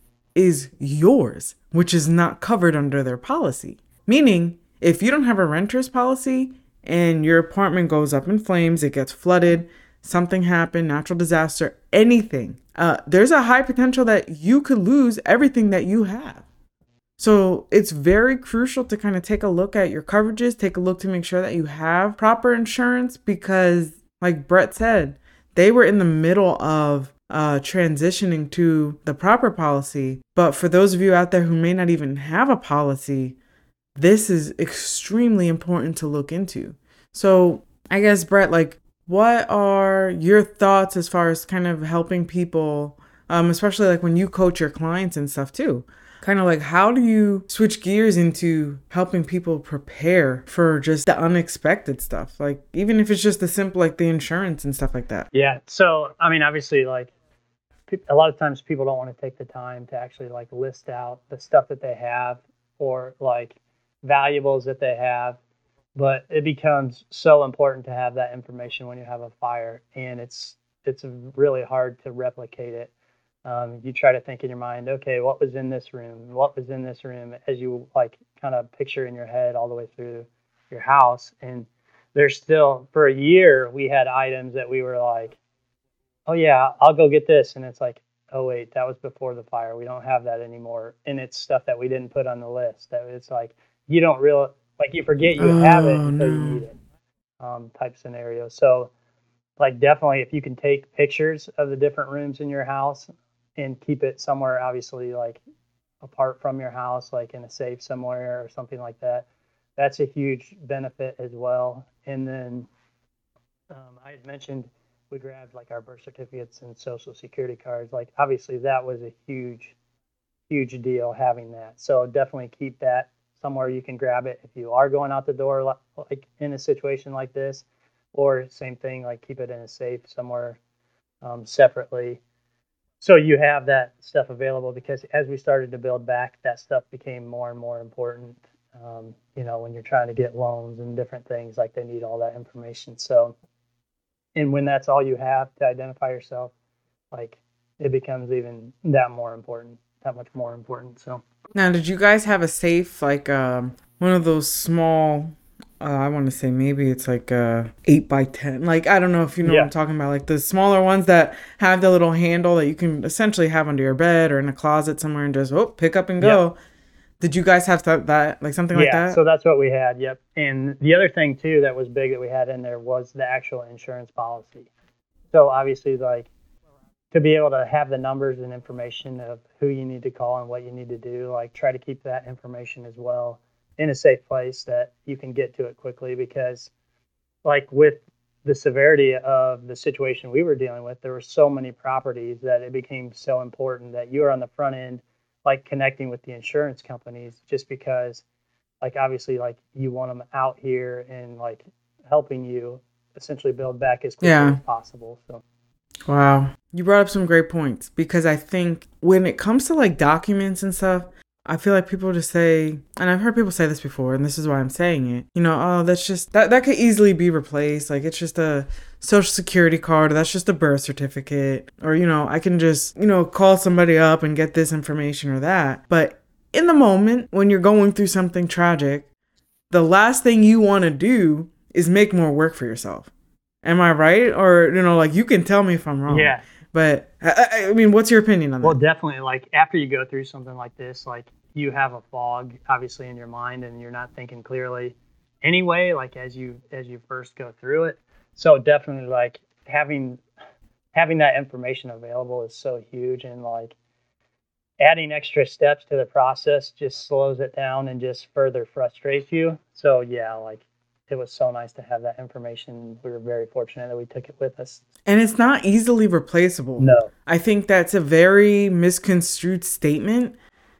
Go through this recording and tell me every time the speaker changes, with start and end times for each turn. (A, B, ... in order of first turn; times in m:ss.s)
0:00.4-0:16.4 A
0:17.2-0:33.4 A
0:34.0-0:55.3 A
0:55.3-0:57.1 B
0:57.9-1:05.4 B
1:06.0-1:12.9 B
1:13.4-1:25.4 B
1:26.3-1:36.8 B
1:35.4-1:36.6 A
1:37.4-1:38.9 B
1:39.6-1:45.4 B
1:46.0-1:52.7 B
1:53.7-1:59.8 B
2:00.5-2:10.6 B
2:11.2-2:12.2 B
2:13.0-2:23.4 B
2:24.4-2:26.5 B
2:27.1-2:31.2 B
2:31.6-2:46.6 A
2:39.4-2:39.7 B
2:47.2-2:49.2 A
2:48.7-2:54.7 B
2:55.3-2:56.3 B
2:57.1-3:06.7 B
3:07.4-3:18.2 B
3:18.8-3:25.4 B
3:24.2-3:24.6 A
3:26.1-3:49.1 A
3:49.7-3:53.1 A
3:53.6-3:58.8 A
3:56.1-3:56.4 B
3:58.6-4:10.2 B
4:10.9-4:13.8 B
4:14.8-4:24.8 B
4:25.1-4:30.4 A
4:26.8-4:27.1 B